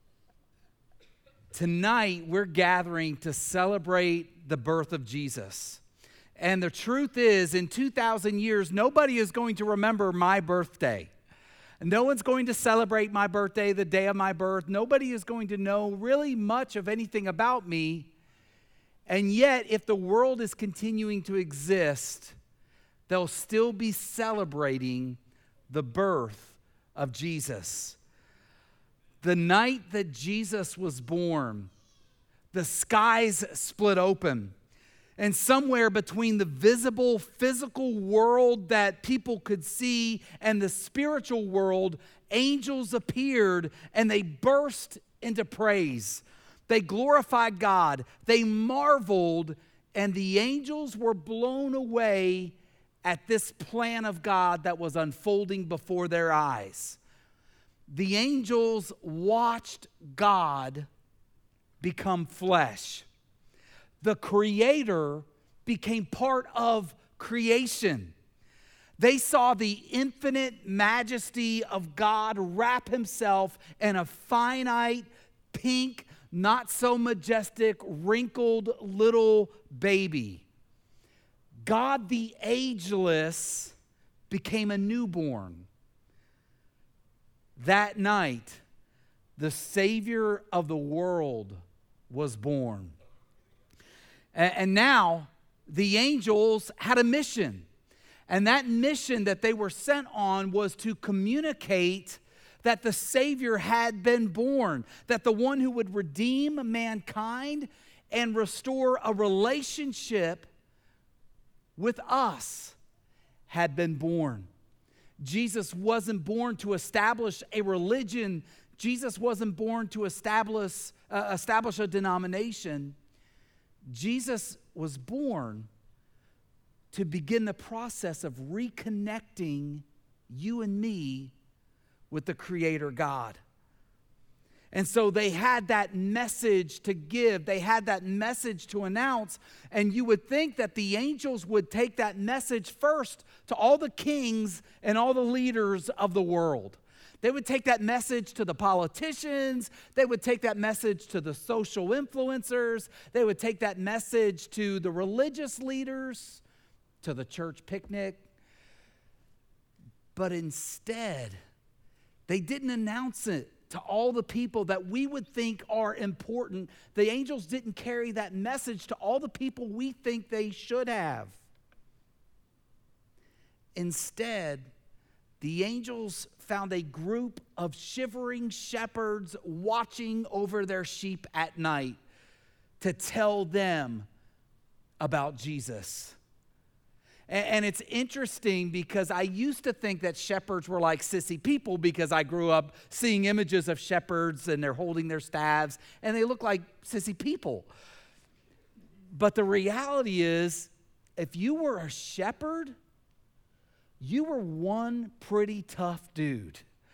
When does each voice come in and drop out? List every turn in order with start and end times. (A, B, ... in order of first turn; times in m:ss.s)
0:01.5-0:05.8 A
0:06.4-0:11.1 A
0:11.8-0:18.1 A
0:19.1-0:22.4 A
0:23.1-0:25.2 A
0:25.7-0:28.0 A
0:29.2-0:31.7 A
0:32.5-0:34.5 A
0:35.2-0:57.0 A
0:57.9-1:00.9 A
1:01.8-1:03.1 A
1:04.0-1:08.1 A
1:09.0-1:20.4 A
1:21.6-1:23.7 A
1:24.3-1:25.7 A
1:27.6-1:28.6 A
1:29.4-1:33.0 A
1:34.3-1:37.7 A
1:38.3-1:50.5 A
1:51.8-1:52.8 A
1:53.5-1:54.5 A
1:55.2-2:03.0 A
2:03.9-2:05.7 A
2:06.9-2:11.3 A
2:12.1-2:13.4 A
2:14.7-2:36.4 A
2:37.0-2:38.3 A
2:40.1-2:41.4 A
2:42.3-2:51.4 A
2:53.7-2:54.7 A
2:55.4-3:02.0 A
3:02.8-3:04.1 A
3:05.0-3:06.2 A
3:07.3-3:17.7 A
3:19.1-3:22.7 A
3:24.0-3:26.6 A